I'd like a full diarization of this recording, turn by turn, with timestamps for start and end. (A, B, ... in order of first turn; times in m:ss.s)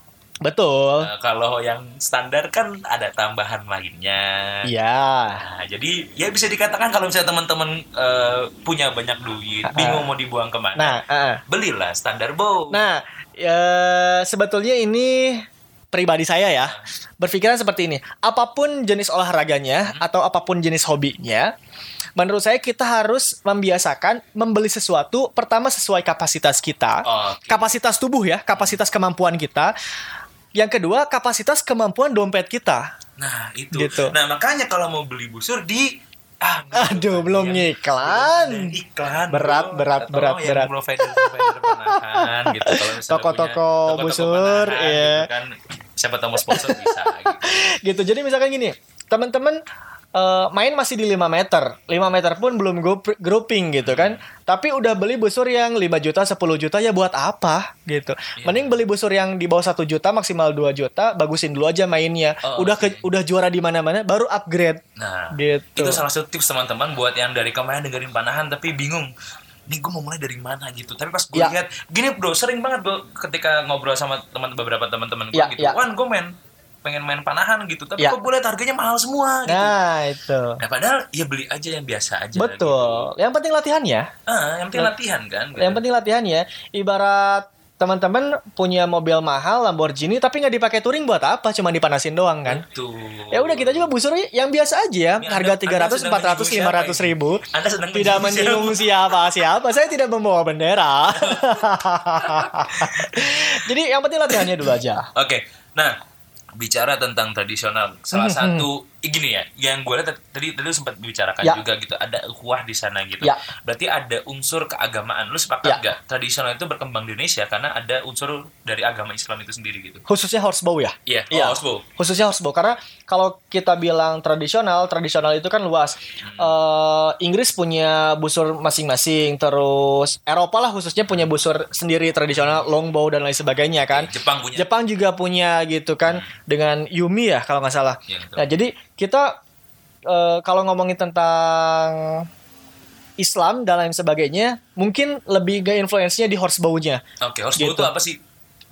0:00.4-0:01.1 A
0:01.0-0:04.7 B
0:04.6-0:05.4 A
0:05.4-0:12.8 B
0:09.7-0:10.0 A
0:10.8-0:11.4 A
0:12.7-0:21.5 A
0:22.2-0:29.7 A
0:27.0-0:27.7 B
0:30.5-0:32.9 A
0:33.2-0:47.7 B
0:33.7-0:34.1 A
0:36.7-0:38.8 A
0:39.3-0:45.3 A
0:46.4-0:49.6 A
0:50.1-1:04.8 A
0:53.8-0:54.2 B
0:58.4-0:58.8 B
1:02.4-1:03.1 B
1:05.0-1:09.1 B
1:05.3-1:06.0 A
1:09.7-1:16.3 B
1:15.3-1:15.8 A
1:16.8-1:19.8 B
1:19.4-1:20.6 A
1:20.6-1:23.1 B
1:22.3-1:24.1 A
1:24.3-1:25.8 B
1:25.6-1:32.6 A
1:32.5-1:33.9 B
1:33.3-1:37.4 A
1:35.2-1:39.4 B
1:37.9-1:45.1 A
1:41.1-1:43.6 B
1:45.1-1:45.9 B
1:46.6-2:00.0 B
1:48.1-1:48.6 A
2:00.1-2:19.4 A
2:01.1-2:01.9 B
2:06.2-2:06.6 B
2:12.3-2:12.7 B
2:13.8-2:14.7 B
2:16.0-2:16.4 B
2:18.1-2:18.5 B
2:20.1-2:22.3 A
2:23.2-2:27.0 A
2:27.2-2:28.2 B
2:27.6-2:27.9 A